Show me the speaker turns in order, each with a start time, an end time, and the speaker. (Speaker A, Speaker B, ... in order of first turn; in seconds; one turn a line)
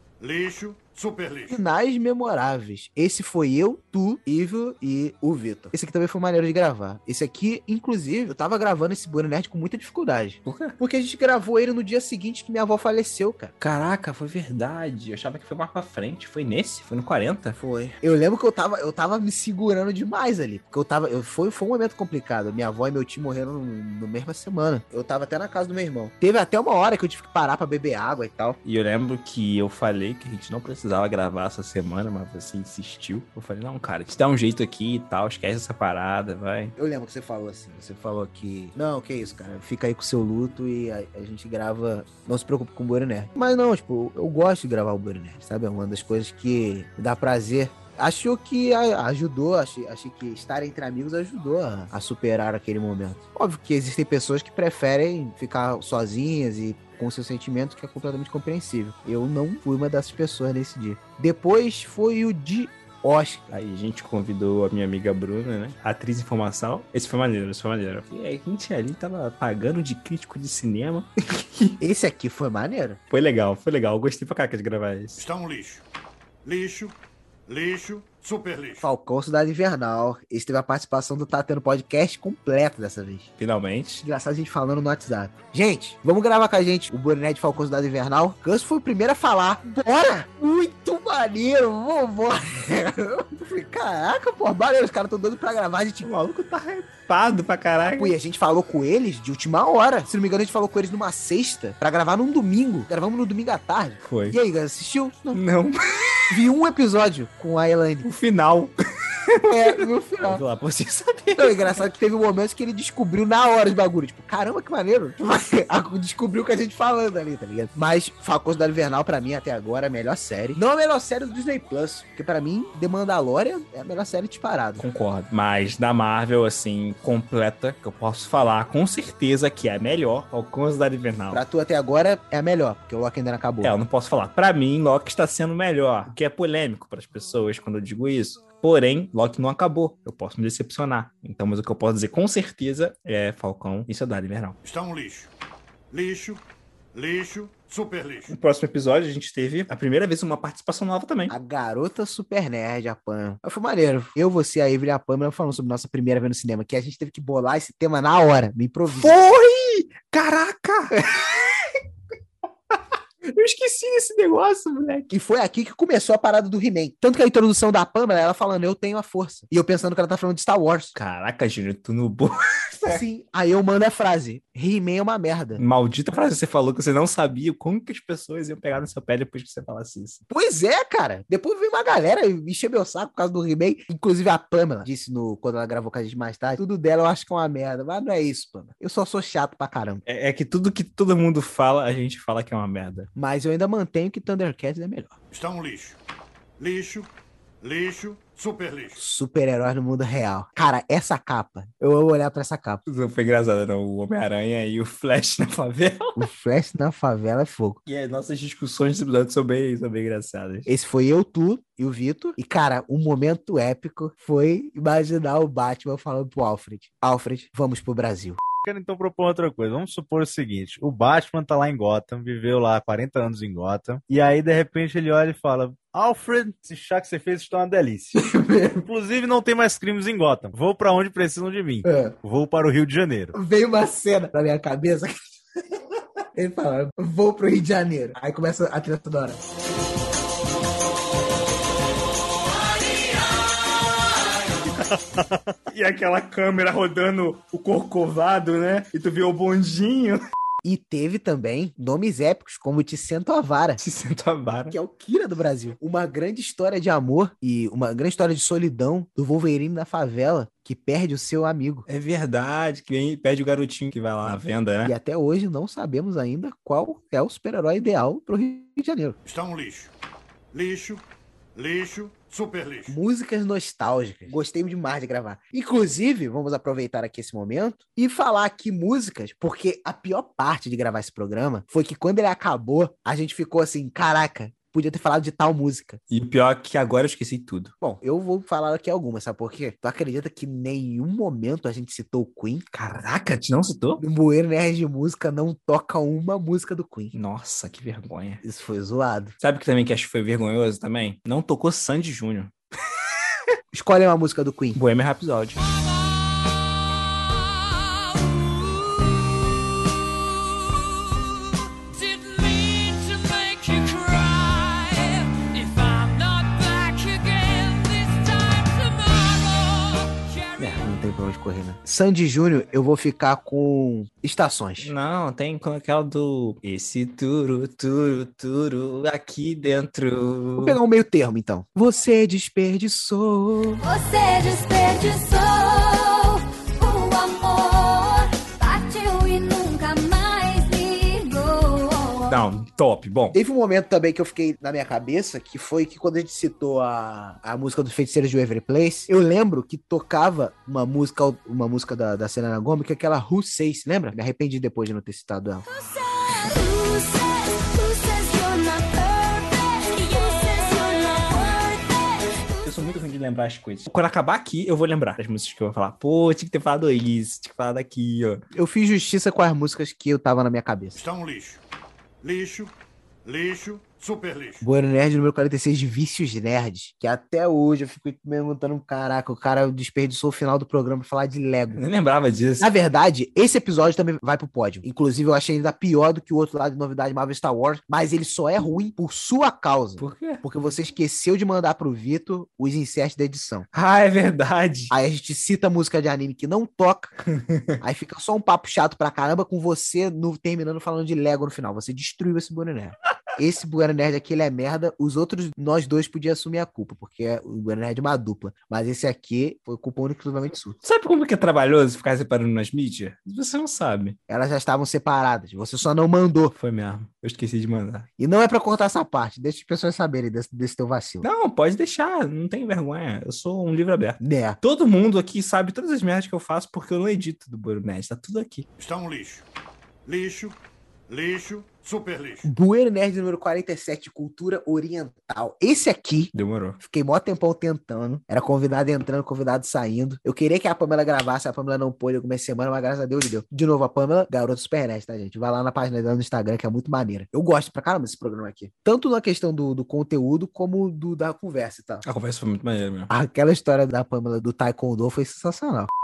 Speaker A: 0.2-1.6
Speaker B: 1.5-13.5
Speaker C: 10.4-10.8
Speaker C: 13.6-17.6
Speaker B: 17.6-28.6
Speaker C: 28.6-36.8
Speaker B: 36.8-63.4
Speaker C: 63.5-71.8
Speaker B: 71.8-73.0
Speaker C: 73.1-75.2
Speaker A: 75.2-75.8
Speaker A: 76.4-77.0
Speaker A: 77.5-78.9
Speaker B: 78.8-83.3
Speaker C: 83.4-84.0
Speaker B: 84.0-96.1
Speaker C: 96.0-98.1
Speaker B: 97.8-105.4
Speaker C: 104.0-104.4
Speaker C: 105.3-106.3
Speaker B: 106.3-108.0
Speaker C: 108.0-108.7
Speaker C: 109.3-111.8
Speaker B: 109.4-110.4
Speaker B: 111.4-124.8
Speaker C: 124.8-131.4
Speaker B: 131.3-133.8
Speaker C: 133.6-144.6
Speaker A: 144.6-145.3
Speaker A: 145.9-146.4
Speaker A: 146.9-148.3
Speaker C: 148.3-151.3
Speaker B: 151.3-159.2
Speaker C: 158.9-161.8
Speaker C: 162.7-165.1
Speaker B: 165.1-170.9
Speaker C: 170.9-173.0
Speaker B: 172.9-175.6
Speaker C: 175.6-180.2
Speaker B: 180.3-190.0
Speaker C: 190.1-193.1
Speaker B: 193.1-195.1
Speaker A: 195.3-196.0
Speaker A: 196.6-197.1
Speaker A: 197.6-199.0
Speaker B: 199.0-202.8
Speaker C: 202.8-206.2
Speaker B: 206.2-207.8
Speaker C: 207.8-210.7
Speaker B: 210.7-218.4
Speaker D: 218.6-228.2
Speaker B: 228.3-228.8
Speaker D: 228.8-233.3
Speaker B: 231.8-232.1
Speaker B: 233.3-235.2
Speaker B: 236.3-239.4
Speaker D: 245.2-245.5
Speaker C: 245.7-250.2
Speaker B: 250.6-253.8
Speaker C: 253.8-254.8
Speaker B: 254.7-261.9
Speaker C: 261.9-264.9
Speaker B: 264.8-269.2
Speaker A: 269.2-269.9
Speaker A: 270.5-271.0
Speaker A: 271.5-272.9
Speaker B: 272.9-286.0
Speaker C: 286.1-287.7
Speaker B: 287.8-292.6
Speaker C: 292.7-294.0
Speaker B: 294.0-297.1
Speaker C: 297.1-298.4
Speaker B: 298.4-299.4
Speaker C: 299.4-302.5
Speaker B: 303.7-304.8
Speaker C: 304.7-305.7
Speaker B: 320.6-324.9
Speaker C: 324.8-330.8
Speaker B: 330.6-333.8
Speaker E: 333.8-342.4
Speaker C: 342.3-343.4
Speaker B: 343.3-355.6
Speaker E: 355.7-362.3
Speaker C: 362.6-368.4
Speaker B: 368.5-371.0
Speaker A: 370.9-371.6
Speaker A: 372.2-372.7
Speaker A: 373.2-374.6
Speaker B: 374.6-381.8
Speaker C: 381.7-382.7
Speaker B: 382.6-393.6
Speaker C: 390.0-390.4
Speaker C: 393.7-394.9
Speaker B: 394.9-397.1
Speaker C: 397.2-397.8
Speaker B: 397.8-410.8
Speaker C: 410.8-414.2
Speaker B: 414.3-416.5
Speaker C: 416.5-418.1
Speaker B: 418.2-421.2
Speaker C: 421.2-428.7
Speaker B: 424.2-424.6
Speaker A: 428.8-429.4
Speaker A: 430.1-430.6
Speaker A: 431.1-432.5
Speaker B: 432.4-452.0
Speaker C: 436.3-436.8
Speaker C: 452.0-453.1
Speaker B: 453.1-455.9